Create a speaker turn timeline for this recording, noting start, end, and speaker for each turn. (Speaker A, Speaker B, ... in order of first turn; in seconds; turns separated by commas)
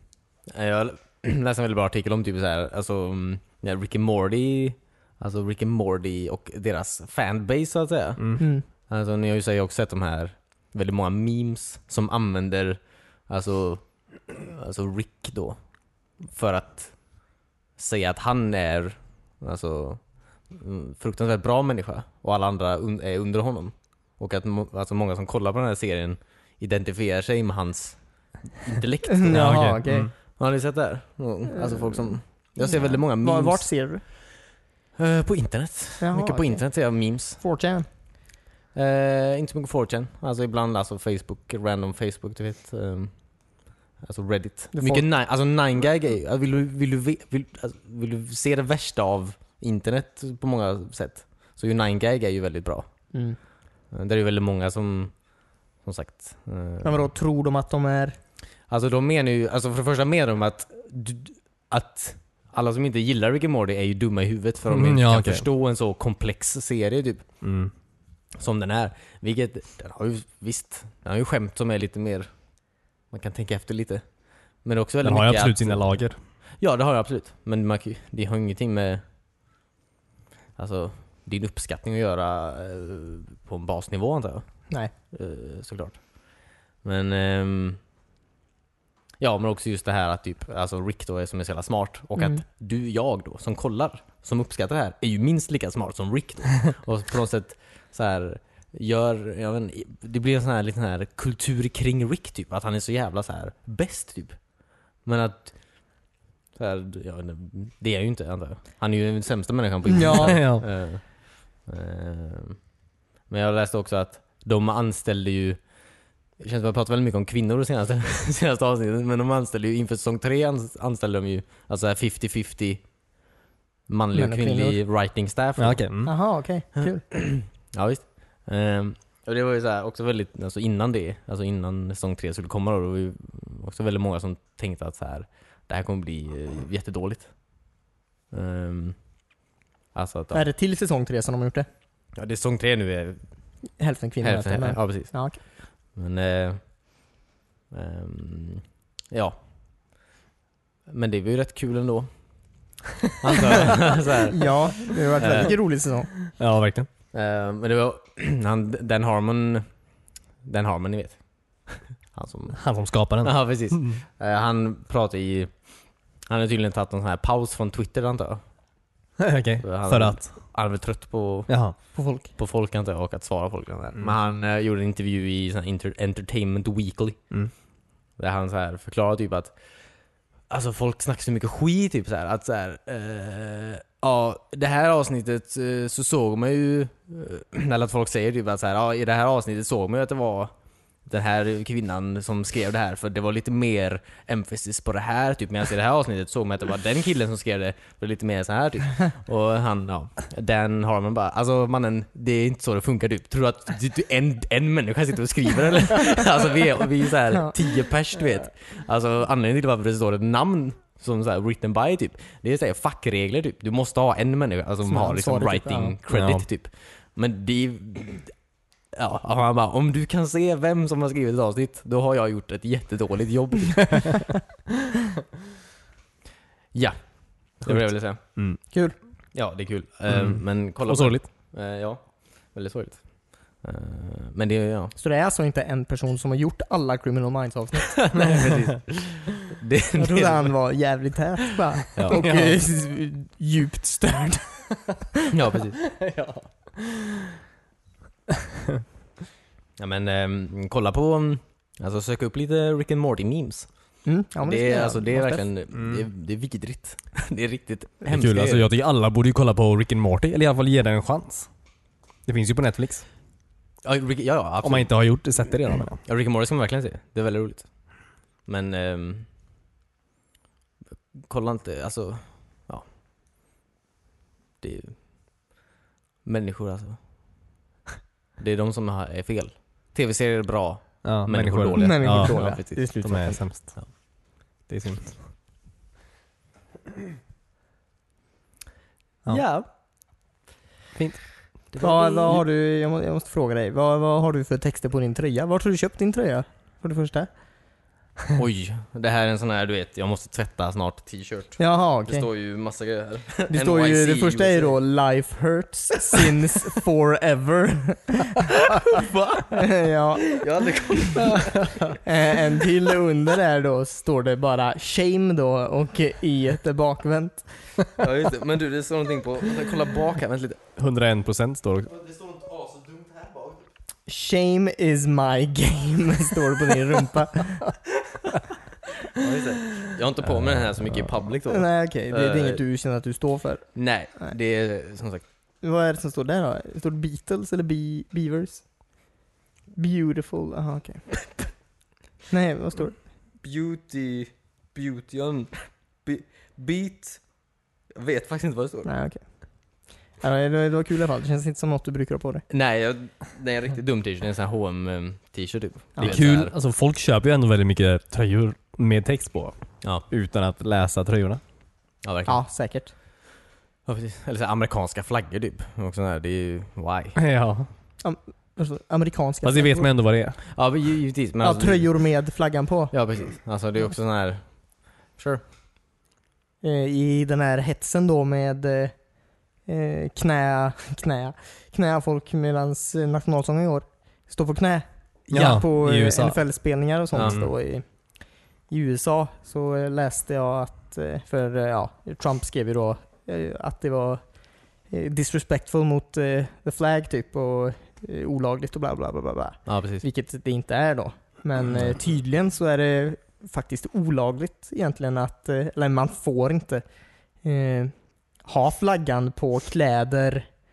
Speaker A: 0.5-33.8, Speaker B: 8.2-8.4, Speaker C: 8.4-8.7, Speaker C: 29.2-30.1, Speaker B: 29.3-30.1, Speaker C: 31.5-34.0, Speaker A: 35.0-37.4, Speaker C: 36.0-37.9, Speaker A: 38.7-52.9, Speaker C: 44.7-45.1, Speaker A: 53.9-55.3, Speaker A: 55.8-57.1, Speaker C: 56.8-58.2, Speaker A: 58.7-67.4, Speaker B: 64.7-65.5, Speaker B: 67.4-67.7, Speaker A: 68.4-72.5, Speaker A: 73.1-79.0, Speaker B: 75.0-76.2, Speaker A: 80.6-87.8, Speaker A: 89.2-106.0, Speaker A: 106.5-112.6, Speaker C: 109.9-110.5, Speaker B: 110.2-110.7, Speaker A: 113.3-115.7, Speaker A: 116.4-122.8, Speaker A: 123.9-125.8, Speaker C: 124.2-124.8, Speaker B: 125.6-126.1, Speaker C: 126.0-127.1, Speaker A: 126.8-137.4, Speaker A: 138.3-139.0, Speaker A: 139.9-140.4, Speaker C: 140.3-141.7, Speaker A: 142.2-143.2, Speaker C: 143.8-145.4, Speaker A: 144.2-146.7, Speaker A: 147.7-149.4, Speaker A: 150.9-152.1, Speaker A: 153.1-155.5, Speaker C: 154.4-156.3, Speaker B: 156.3-156.9, Speaker A: 157.1-159.7, Speaker A: 160.4-162.6, Speaker B: 162.5-164.0, Speaker A: 163.2-168.4, Speaker B: 169.2-170.3, Speaker A: 169.6-177.4, Speaker B: 171.5-171.8, Speaker C: 171.9-172.3, Speaker A: 178.2-179.6, Speaker A: 180.5-190.5, Speaker A: 191.1-218.4, Speaker C: 214.9-216.0, Speaker B: 216.1-216.5, Speaker A: 218.9-224.2, Speaker A: 226.7-228.3, Speaker B: 227.7-228.6, Speaker C: 228.7-229.0, Speaker A: 229.3-234.9, Speaker B: 230.1-231.3, Speaker C: 235.0-238.4, Speaker A: 237.9-240.6, Speaker C: 240.0-245.0, Speaker A: 241.9-242.2, Speaker B: 242.1-242.6, Speaker A: 245.3-245.8, Speaker B: 245.8-247.3, Speaker A: 249.8-258.7, Speaker C: 254.1-255.5, Speaker B: 255.7-256.1, Speaker B: 258.1-261.5, Speaker B: 262.3-263.1, Speaker A: 263.9-264.9, Speaker B: 264.6-266.0, Speaker A: 266.1-269.3, Speaker A: 271.2-272.9, Speaker A: 274.6-275.1, Speaker A: 276.2-277.0, Speaker A: 278.4-283.0, Speaker B: 281.0-284.1, Speaker C: 281.8-283.4, Speaker A: 283.6-283.9, Speaker B: 284.7-285.3, Speaker A: 289.3-289.7, Speaker B: 290.9-291.5, Speaker A: 291.7-292.4, Speaker C: 291.8-297.3, Speaker A: 298.4-304.8, Speaker C: 301.6-302.3, Speaker C: 303.5-311.3, Speaker A: 308.8-309.5, Speaker A: 310.3-312.0, Speaker C: 312.0-317.8, Speaker A: 318.0-320.6, Speaker B: 320.8-321.9, Speaker A: 321.9-323.6, Speaker C: 324.1-327.8, Speaker A: 329.1-332.6, Speaker C: 331.5-334.4, Speaker A: 333.8-335.2, Speaker C: 335.6-338.8, Speaker C: 339.8-341.3, Speaker C: 342.3-343.0, Speaker A: 343.4-347.3, Speaker A: 347.9-348.9, Speaker C: 348.9-349.2, Speaker C: 350.2-352.4, Speaker A: 352.5-356.5, Speaker B: 356.0-361.4, Speaker A: 362.0-362.4, Speaker C: 362.3-362.9, Speaker A: 363.9-367.2, Speaker B: 367.2-367.7, Speaker C: 368.0-369.9, Speaker B: 369.4-370.4, Speaker A: 370.5-371.9, Speaker C: 371.4-373.2, Speaker A: 372.9-375.4, Speaker C: 376.6-379.0, Speaker C: 379.6-406.8, Speaker B: 385.3-386.4, Speaker A: 387.1-387.4, Speaker B: 387.2-387.5, Speaker A: 399.7-400.1, Speaker A: 401.7-402.0, Speaker C: 407.4-410.5